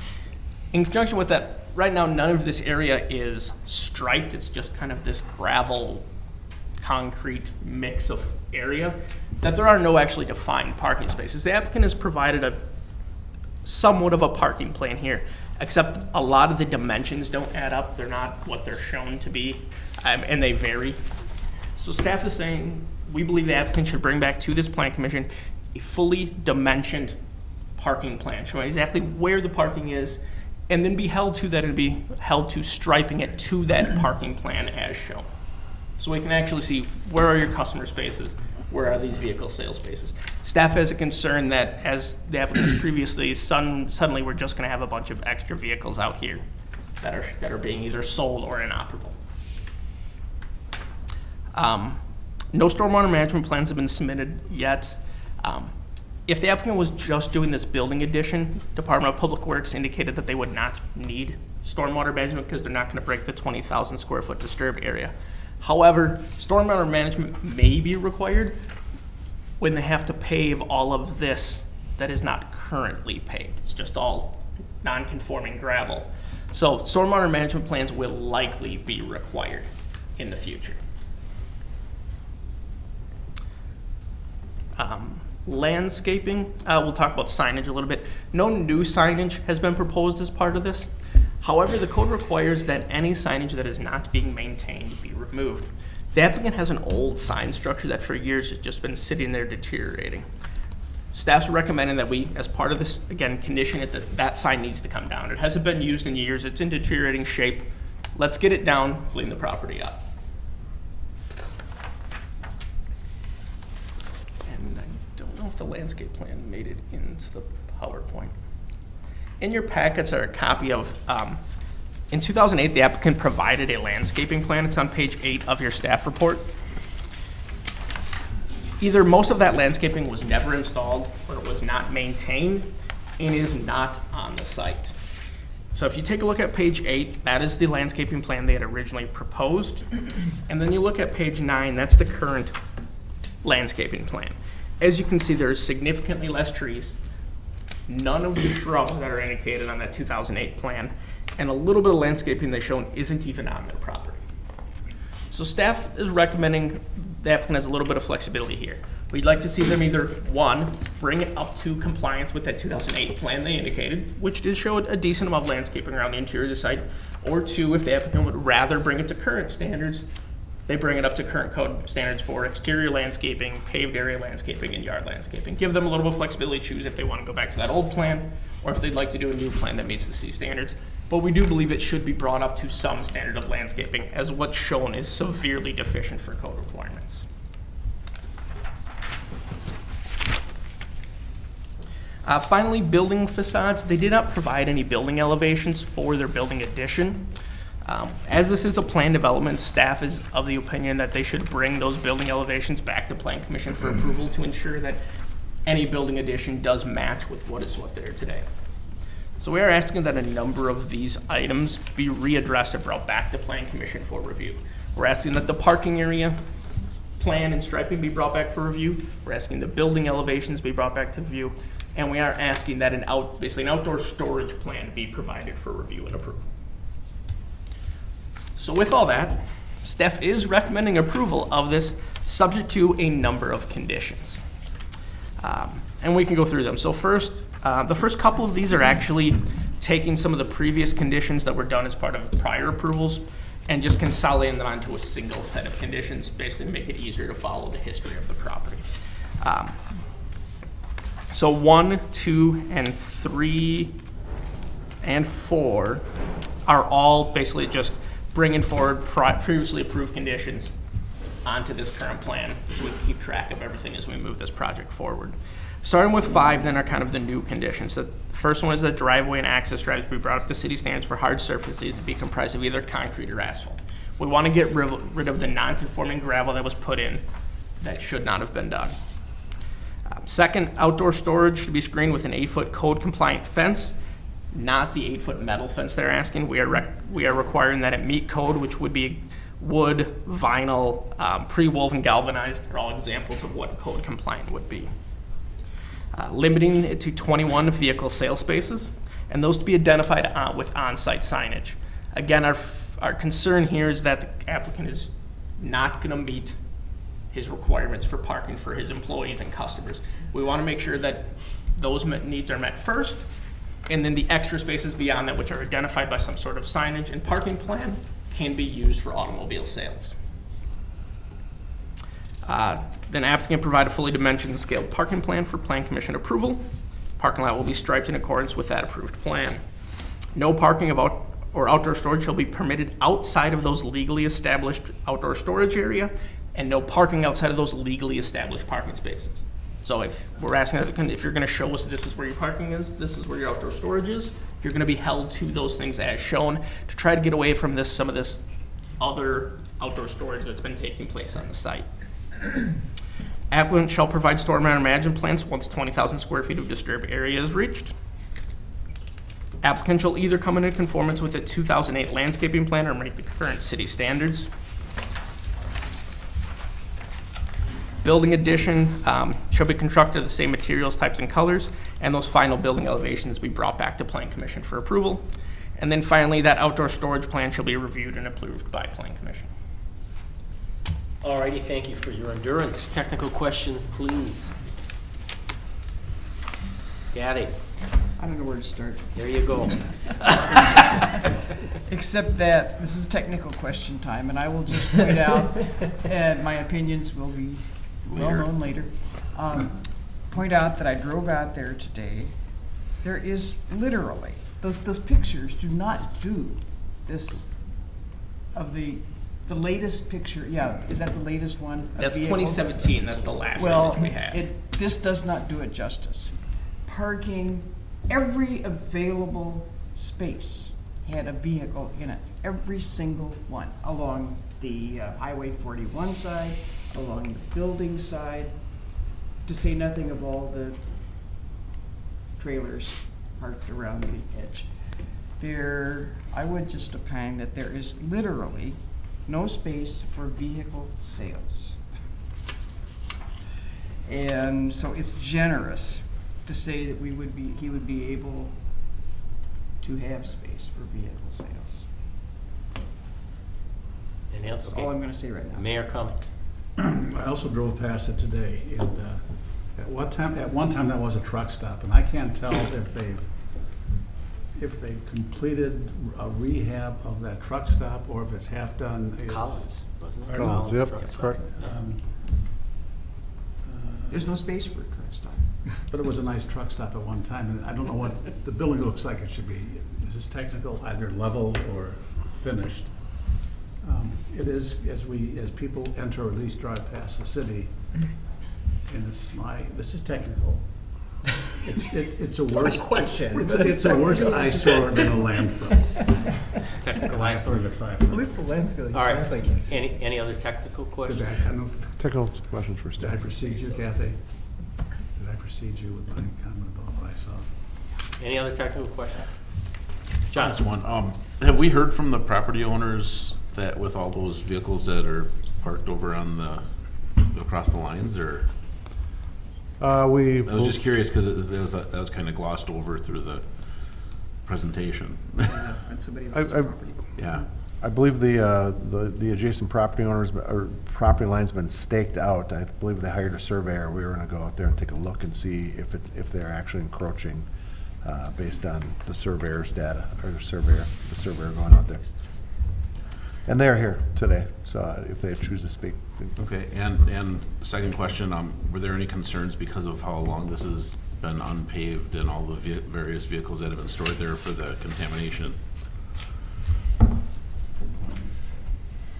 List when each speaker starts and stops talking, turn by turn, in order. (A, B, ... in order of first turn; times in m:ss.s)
0:00.7-0:06.0 A
0:06.8-0:12.6 A
0:13.6-0:21.0 A
0:21.8-0:27.2 A
0:27.8-0:35.2 A
0:36.0-0:46.4 A
0:47.0-0:49.2 A
0:51.5-0:52.0 A
0:52.5-0:55.7 A
0:56.3-1:08.6 A
1:09.6-1:20.8 A
1:24.8-1:40.2 A
1:41.1-1:50.0 A
1:54.4-1:58.3 A
1:59.4-2:01.4 A
2:02.1-2:06.5 A
2:08.8-2:15.0 A
2:15.7-2:22.5 A
2:23.4-2:27.0 A
2:27.9-2:34.2 A
2:35.3-2:50.0 A
2:50.7-3:07.2 A
3:12.2-3:17.3 A
3:17.8-3:25.0 A
3:25.6-3:28.4 A
3:29.4-3:36.4 A
3:37.2-3:46.5 A
3:48.6-3:54.4 A
3:55.4-4:09.8 A
4:11.3-4:13.9 A
4:15.0-4:16.0 A
4:16.6-4:20.7 A
4:21.4-4:37.2 A
4:37.8-4:39.0 A
4:40.1-4:44.0 A
4:44.5-4:54.9 A
4:56.1-5:06.6 A
5:07.3-5:13.3 A
5:13.9-5:20.2 A
5:22.4-5:26.6 A
5:27.2-5:29.6 A
5:30.3-5:48.4 A
5:49.0-5:51.9 A
5:53.5-5:57.9 A
5:59.6-6:04.5 A
6:08.0-6:15.3 A
6:15.8-6:19.5 A
6:21.2-6:24.6 B
6:27.1-6:27.6 B
6:28.2-6:30.0 C
6:29.1-6:30.8 B
6:31.8-7:11.0 C
6:38.1-6:38.5 D
6:52.0-6:54.5 A
7:12.3-7:21.8 C
7:24.0-7:29.0 C
7:29.8-7:31.9 C
7:34.3-7:36.3 B
7:34.6-7:35.7 C
7:36.8-7:43.9 E
7:44.5-7:52.3 E
7:49.2-7:51.8 B
7:50.3-7:51.4 F
7:53.6-7:54.4 E
7:54.1-7:55.6 C
7:55.9-8:07.9 E
8:08.8-8:16.1 E
8:12.5-8:15.5 G
8:16.8-8:17.9 B
8:17.1-8:18.3 E
8:18.1-8:19.7 G
8:18.9-8:21.6 B
8:21.0-8:22.0 E
8:22.0-8:23.2 F
8:23.0-8:27.5 E
8:28.2-8:29.7 B
8:30.3-8:30.6 B
8:30.3-8:38.5 D
8:39.8-8:40.8 F
8:40.4-8:45.5 D
8:45.4-8:47.1 C
8:46.3-8:46.7 F
8:47.2-8:47.5 D
8:47.8-8:57.5 F
8:58.0-9:02.6 F
9:03.4-9:06.3 F
9:06.4-9:15.6 D